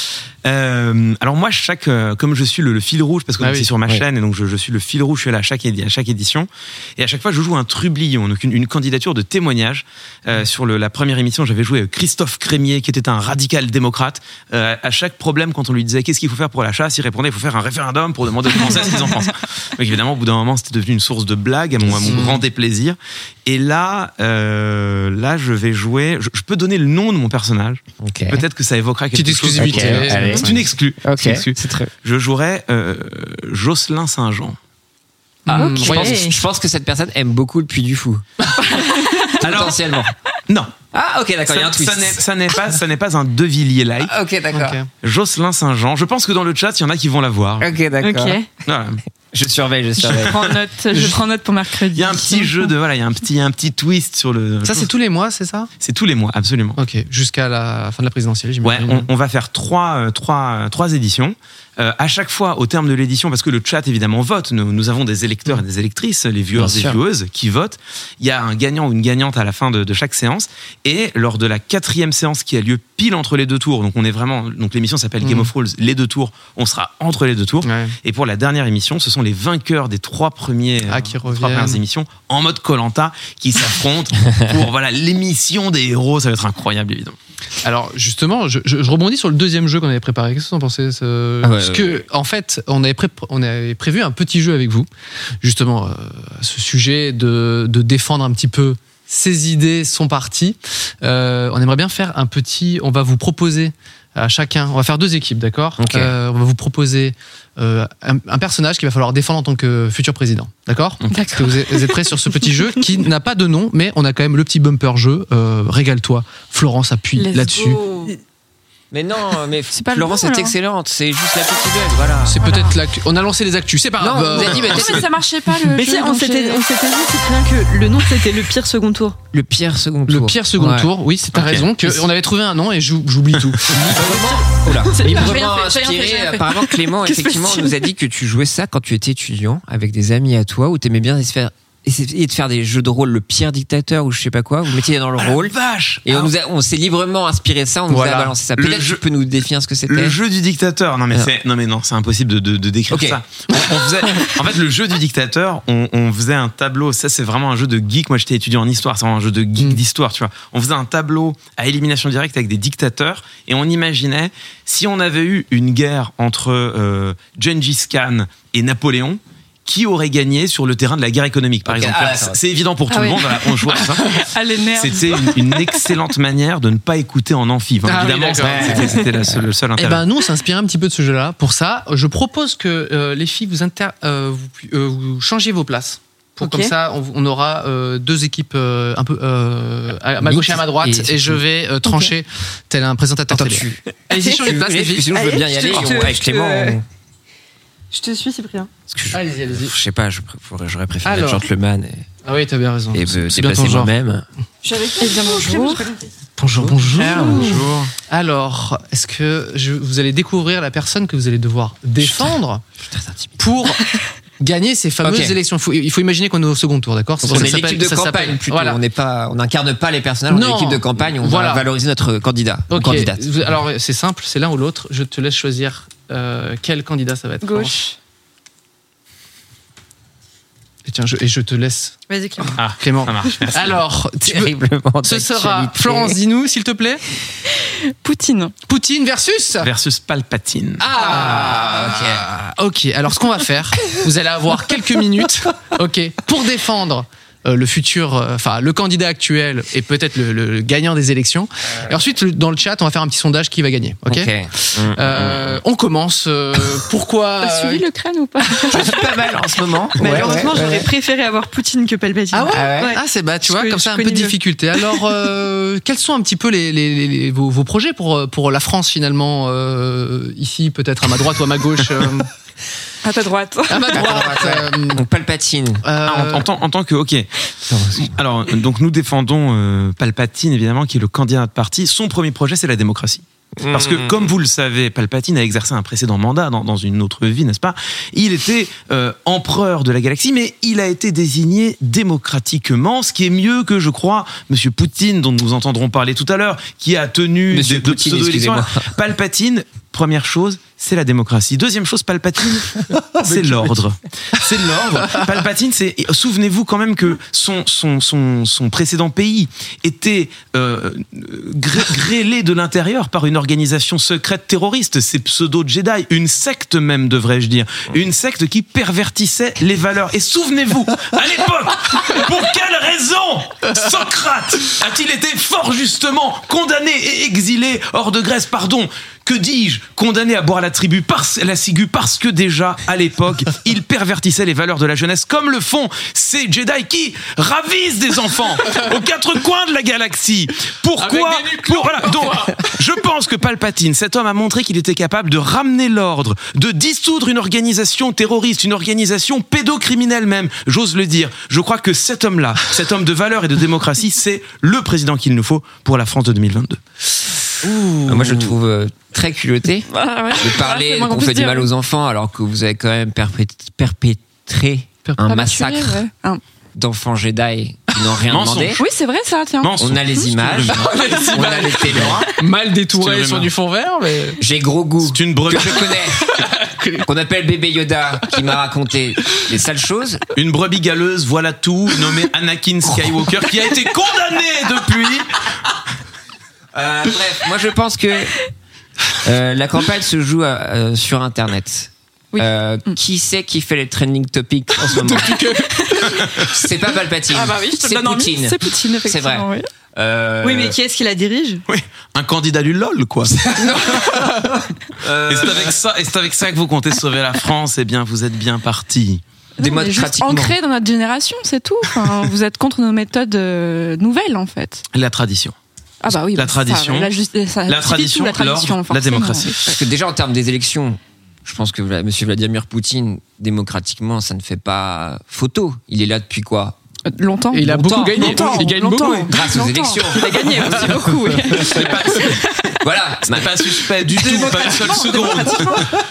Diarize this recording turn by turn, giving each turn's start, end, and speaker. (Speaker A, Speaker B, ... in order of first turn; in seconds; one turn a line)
Speaker A: 0.4-34.6
Speaker B: 3.4-3.7
Speaker C: 21.8-22.3
Speaker B: 22.0-22.4
Speaker C: 28.0-28.4
Speaker B: 29.1-30.6
Speaker C: 29.5-31.9
Speaker B: 35.5-36.3
Speaker C: 35.5-40.1
Speaker D: 35.5-36.3
Speaker A: 39.4-39.8
Speaker A: 40.5-40.7
Speaker C: 40.9-42.2
Speaker A: 41.5-44.1
Speaker C: 44.0-44.8
Speaker B: 44.5-44.9
Speaker A: 45.0-47.7
Speaker C: 47.6-48.4
Speaker D: 48.0-48.5
Speaker A: 48.6-49.0
Speaker C: 49.3-50.5
Speaker E: 50.1-52.7
Speaker B: 50.9-51.2
Speaker A: 51.9-54.9
Speaker B: 54.6-55.7
Speaker A: 55.8-56.8
Speaker B: 56.8-59.1
Speaker A: 58.6-87.2
Speaker C: 66.5-67.0
Speaker B: 75.2-75.5
Speaker B: 77.6-78.0
Speaker B: 80.8-81.8
Speaker B: 87.6-94.9
Speaker C: 91.4-92.0
Speaker B: 95.4-117.8
Speaker C: 105.8-106.1
Speaker E: 111.1-112.6
Speaker E: 117.2-118.1
Speaker C: 118.9-122.5
Speaker E: 119.7-120.5
Speaker B: 122.2-125.0
Speaker E: 122.4-122.8
Speaker C: 124.0-125.1
Speaker E: 124.4-126.6
Speaker D: 125.7-129.2
Speaker C: 129.3-130.9
Speaker B: 130.1-134.4
Speaker A: 131.3-131.7
Speaker C: 133.7-150.2
Speaker E: 134.9-137.8
Speaker A: 145.2-146.3
Speaker A: 148.0-149.0
Speaker A: 149.9-180.1
Speaker C: 152.9-153.6
Speaker C: 171.7-172.4
Speaker D: 172.9-173.2
Speaker E: 174.2-175.8
Speaker B: 177.8-178.9
Speaker C: 178.4-179.4
Speaker B: 179.8-195.1
Speaker D: 186.4-186.7
Speaker C: 190.2-191.4
Speaker C: 193.3-196.8
Speaker D: 194.1-194.4
Speaker D: 195.1-196.8
Speaker D: 197.9-198.7
Speaker C: 198.9-202.1
Speaker B: 199.1-199.7
Speaker B: 201.0-201.4
Speaker B: 202.2-203.9
Speaker C: 202.9-204.2
Speaker D: 204.6-206.1
Speaker E: 205.0-205.9
Speaker B: 206.4-212.6
Speaker C: 206.6-207.8
Speaker D: 207.1-207.6
Speaker C: 212.0-212.3
Speaker C: 212.9-213.4
Speaker B: 213.4-213.9
Speaker B: 214.4-218.8
Speaker C: 215.0-215.4
Speaker C: 217.2-223.3
Speaker B: 220.3-221.7
Speaker B: 222.7-227.8
Speaker E: 227.4-227.9
Speaker B: 230.8-232.0
Speaker D: 232.1-232.6
Speaker A: 232.6-233.8
Speaker B: 232.8-237.0
Speaker C: 234.2-236.2
Speaker E: 238.0-238.5
Speaker B: 238.7-239.7
Speaker A: 239.6-240.8
Speaker B: 240.8-257.8
Speaker C: 240.9-242.2
Speaker C: 254.1-255.6
Speaker E: 257.4-259.0
Speaker C: 258.7-260.9
Speaker D: 260.0-264.8
Speaker B: 262.3-272.3
Speaker C: 262.5-262.9
Speaker E: 273.0-274.2
Speaker B: 273.7-275.0
Speaker C: 273.9-275.8
Speaker B: 275.8-276.5
Speaker A: 276.0-277.3
Speaker C: 277.7-278.2
Speaker A: 277.9-356.8
Speaker C: 283.6-284.3
Speaker C: 297.5-298.9
Speaker B: 341.0-342.8
Speaker B: 357.6-358.5
Speaker C: 358.0-366.0
Speaker E: 359.9-361.7
Speaker E: 365.2-366.4
Speaker C: 366.7-368.8
Speaker A: 368.3-368.8
Speaker E: 368.8-370.2
Speaker A: 369.6-372.3
Speaker C: 369.8-372.3
Speaker B: 370.7-374.4
Speaker A: 372.9-373.5
Speaker C: 374.4-376.3
Speaker A: 375.0-376.2
Speaker B: 376.2-377.1
Speaker C: 377.0-380.2
Speaker A: 380.3-385.5
Speaker C: 386.7-388.4
Speaker C: 389.2-400.8
Speaker E: 392.3-392.9
Speaker B: 394.8-396.2
Speaker E: 395.8-396.1
Speaker E: 397.3-399.7
Speaker D: 400.4-401.6
Speaker A: 401.7-404.0
Speaker C: 403.3-405.8
Speaker B: 404.2-404.5
Speaker A: 405.2-409.2
Speaker E: 409.6-414.8
Speaker C: 409.6-410.6
Speaker A: 414.9-415.5
Speaker E: 416.0-419.7
Speaker A: 416.1-417.1
Speaker A: 417.7-419.5
Speaker C: 419.7-426.8
Speaker E: 427.1-432.8
Speaker B: 427.5-429.6
Speaker C: 427.7-428.7
Speaker C: 429.3-432.2
Speaker B: 430.1-431.7
Speaker A: 431.7-432.5
Speaker C: 432.8-434.9
Speaker A: 433.3-435.9
Speaker E: 434.2-435.9